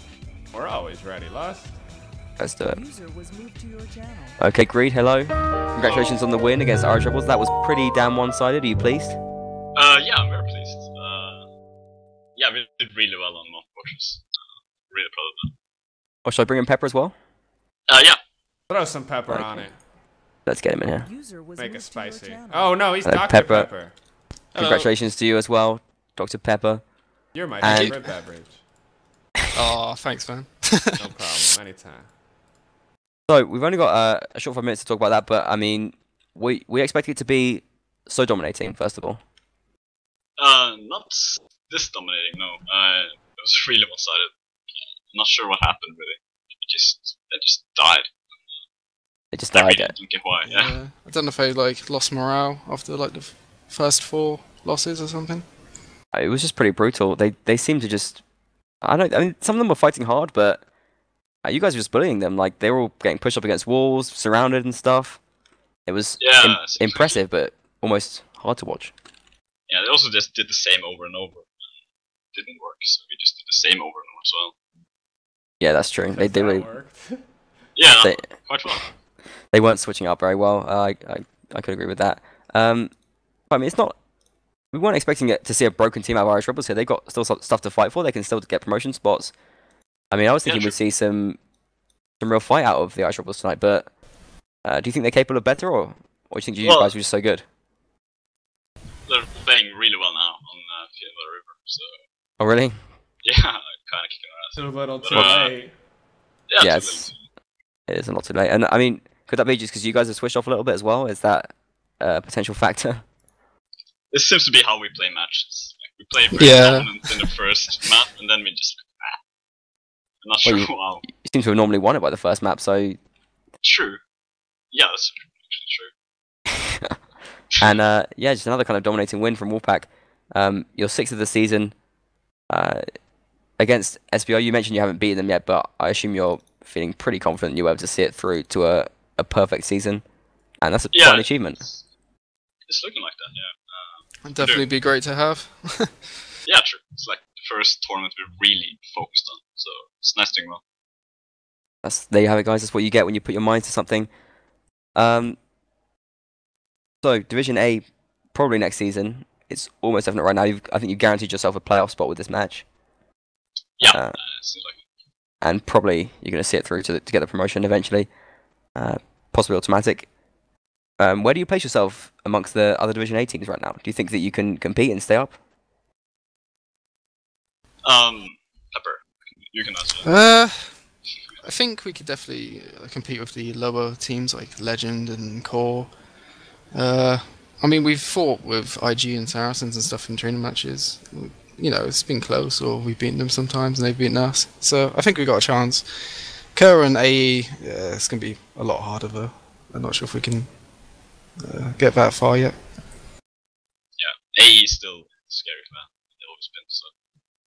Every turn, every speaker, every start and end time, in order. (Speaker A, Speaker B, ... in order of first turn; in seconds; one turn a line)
Speaker A: 0.5-1.8
Speaker B: 2.4-2.8
Speaker C: 2.6-4.4
Speaker B: 4.4-9.2
Speaker D: 5.8-6.2
Speaker D: 9.7-11.4
Speaker D: 12.3-15.5
Speaker B: 16.2-17.1
Speaker D: 17.9-18.2
Speaker A: 18.7-19.8
Speaker B: 19.3-19.7
Speaker B: 20.4-21.1
Speaker C: 20.9-22.8
Speaker A: 21.5-24.0
Speaker B: 23.0-23.7
Speaker E: 24.5-24.9
Speaker B: 24.6-26.9
Speaker A: 27.3-28.6
Speaker B: 27.6-27.9
Speaker E: 27.6-28.0
Speaker E: 29.5-31.1
Speaker A: 31.0-32.1
Speaker B: 33.3-39.2
Speaker D: 40.4-48.1
Speaker B: 49.3-49.9
Speaker D: 49.5-50.8
Speaker E: 50.4-55.5
Speaker B: 56.1-58.2
Speaker B: 58.8-60.7
Speaker B: 61.4-65.2
Speaker B: 65.8-68.9
Speaker D: 66.2-67.2
Speaker D: 69.7-71.5
Speaker D: 72.3-74.5
Speaker B: 75.6-76.7
Speaker A: 76.0-77.2
Speaker D: 77.7-78.9
Speaker B: 78.0-78.8
Speaker B: 79.5-82.9
Speaker B: 83.5-84.0
Speaker B: 84.7-89.3
Speaker B: 90.1-91.4
Speaker D: 90.4-90.8
Speaker B: 92.2-94.0
Speaker B: 94.6-97.4
Speaker D: 96.6-96.9
Speaker D: 99.0-102.0
Speaker B: 102.4-102.8
Speaker D: 103.2-105.6
Speaker A: 104.5-105.7
Speaker D: 106.5-107.2
Speaker B: 106.6-107.1
Speaker B: 107.9-113.0
Speaker D: 114.1-119.2
Speaker E: 116.3-116.9
Speaker D: 120.2-121.1
Speaker B: 120.4-123.0
Speaker D: 123.6-124.0
Speaker D: 124.7-125.9
Speaker B: 127.6-131.8
Speaker B: 132.5-133.0
Speaker B: 133.6-140.1
Speaker B: 140.6-141.6
Speaker D: 140.9-141.8
Speaker D: 142.7-144.7
Speaker E: 144.2-146.2
Speaker D: 146.4-150.6
Speaker B: 151.8-154.1
Speaker B: 154.9-155.4
Speaker B: 157.0-162.7
Speaker D: 163.8-164.8
Speaker B: 163.8-164.2
Speaker B: 165.4-168.1
Speaker B: 168.7-170.1
Speaker B: 171.0-175.4
Speaker D: 177.8-180.3
Speaker E: 180.0-180.9
Speaker E: 181.4-185.9
Speaker E: 186.7-200.6
Speaker E: 201.4-202.6
Speaker D: 204.0-206.9